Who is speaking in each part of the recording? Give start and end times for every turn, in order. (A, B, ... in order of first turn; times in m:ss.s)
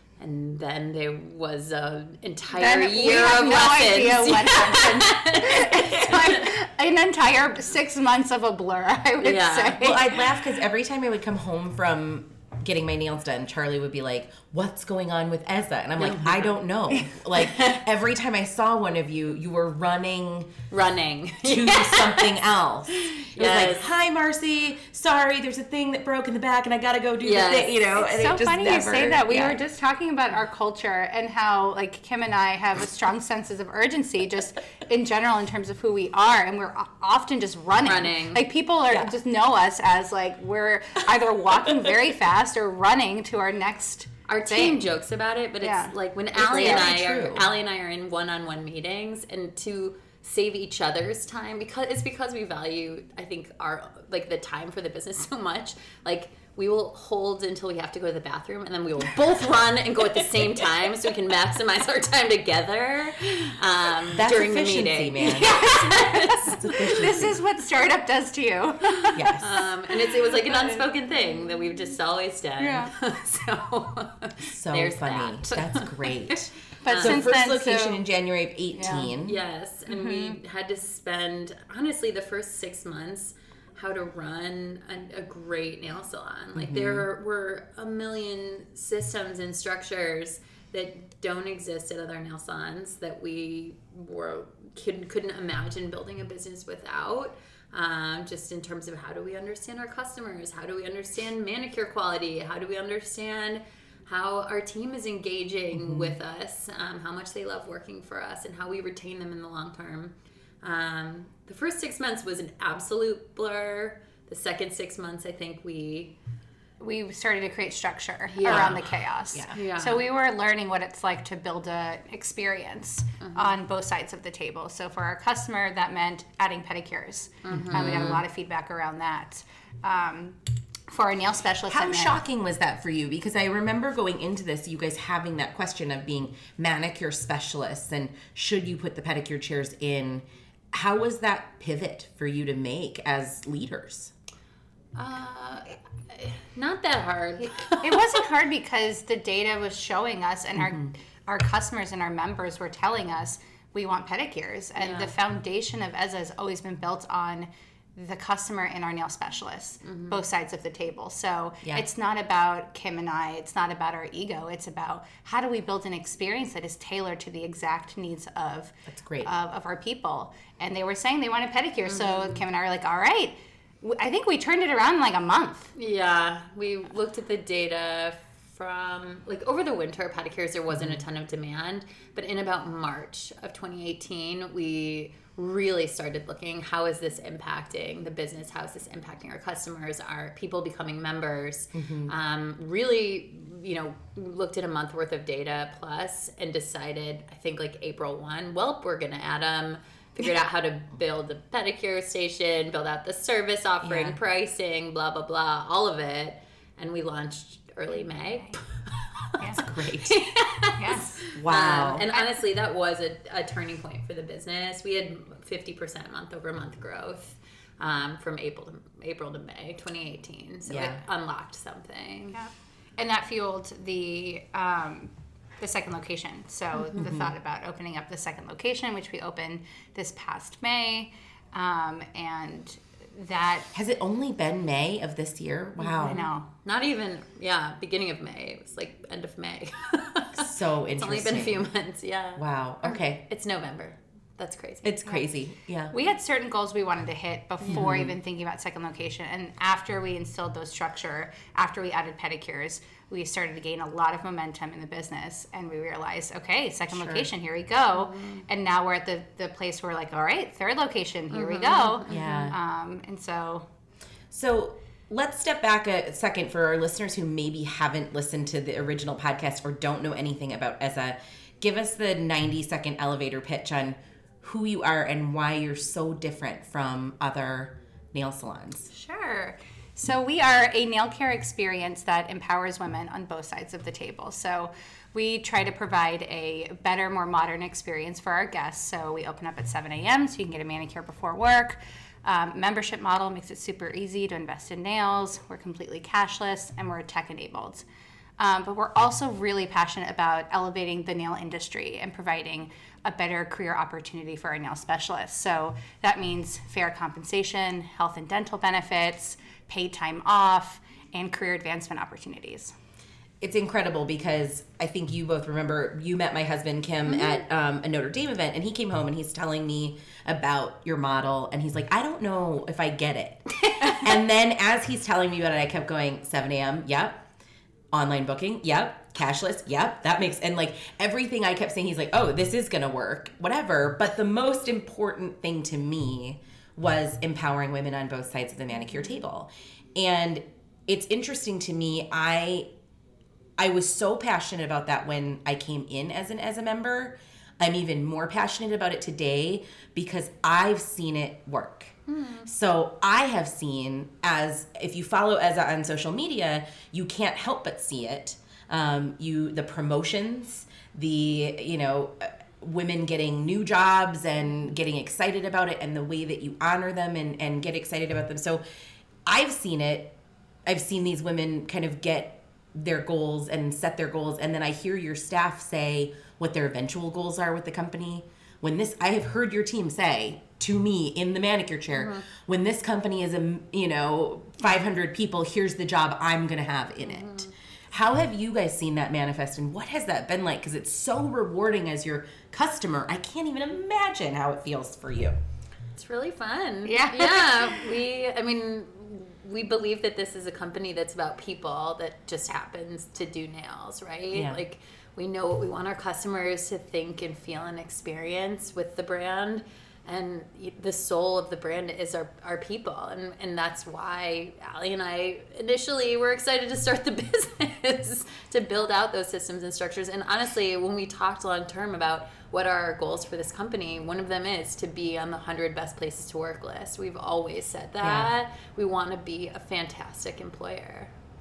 0:00.2-0:06.4 A
0:02.5-0:10.2 B
0:09.2-0:09.8 A
0:09.8-0:20.6 C
0:16.0-0:17.8 A
0:20.7-0:22.3 A
0:21.4-0:29.6 C
0:23.0-0:23.9 A
0:27.2-0:27.8 A
0:28.0-0:44.9 B
0:37.8-0:38.4 A
0:44.3-1:07.0 A
0:45.6-0:46.9 B
0:46.3-0:47.5 C
1:04.1-1:05.6 C
1:05.2-1:09.4 B
1:06.5-1:07.4 C
1:09.1-1:09.7 C
1:09.4-1:16.3 A
1:12.6-1:12.9 B
1:14.4-1:19.4 C
1:16.8-1:18.0 B
1:16.8-1:17.3 A
1:18.7-1:19.1 B
1:19.2-1:56.1 A
1:19.9-1:20.4 B
1:26.5-1:27.1 C
1:45.7-1:46.2 C
1:56.8-2:12.2 B
1:58.3-1:58.8 A
1:58.4-1:59.5 C
1:59.5-2:00.0 A
2:03.2-2:03.5 A
2:07.4-2:08.2 A
2:07.5-2:08.2 C
2:11.7-2:24.1 C
2:25.0-2:28.2 A
2:27.8-2:55.7 B
2:30.6-2:30.9 C
2:34.8-2:35.1 A
2:39.8-2:40.2 A
2:48.9-2:49.3 C
2:51.8-2:52.4 A
2:55.8-3:42.4 A
3:00.7-3:01.0 C
3:11.7-3:12.1 C
3:23.8-3:24.2 C
3:29.4-3:29.6 B
3:29.6-3:30.1 C
3:30.8-3:31.2 B
3:31.3-3:32.0 C
3:32.1-3:32.4 B
3:40.7-3:41.0 C
3:42.3-3:53.7 B
3:47.0-3:47.4 C
3:53.7-3:56.3 C
3:55.9-4:05.3 A
3:55.9-3:56.5 B
4:00.3-4:01.7 C
4:02.4-4:03.2 C
4:04.8-4:05.9 C
4:05.9-4:23.7 B
4:07.6-4:07.9 A
4:07.7-4:08.2 C
4:16.9-4:17.3 C
4:17.9-4:18.4 A
4:21.3-4:22.5 A
4:22.1-4:22.6 C
4:24.3-4:38.9 C
4:38.9-4:57.8 B
4:58.4-5:12.7 B
5:13.4-5:27.2 C
5:27.9-5:42.7 C
5:43.6-6:08.6 C
5:52.1-5:52.5 A
6:09.3-6:10.1 C
6:10.6-6:35.4 C
6:21.9-6:22.2 A
6:27.0-6:27.5 A
6:35.9-7:11.1 A
6:36.8-6:38.0 B
6:44.3-6:44.6 C
7:08.0-7:08.3 C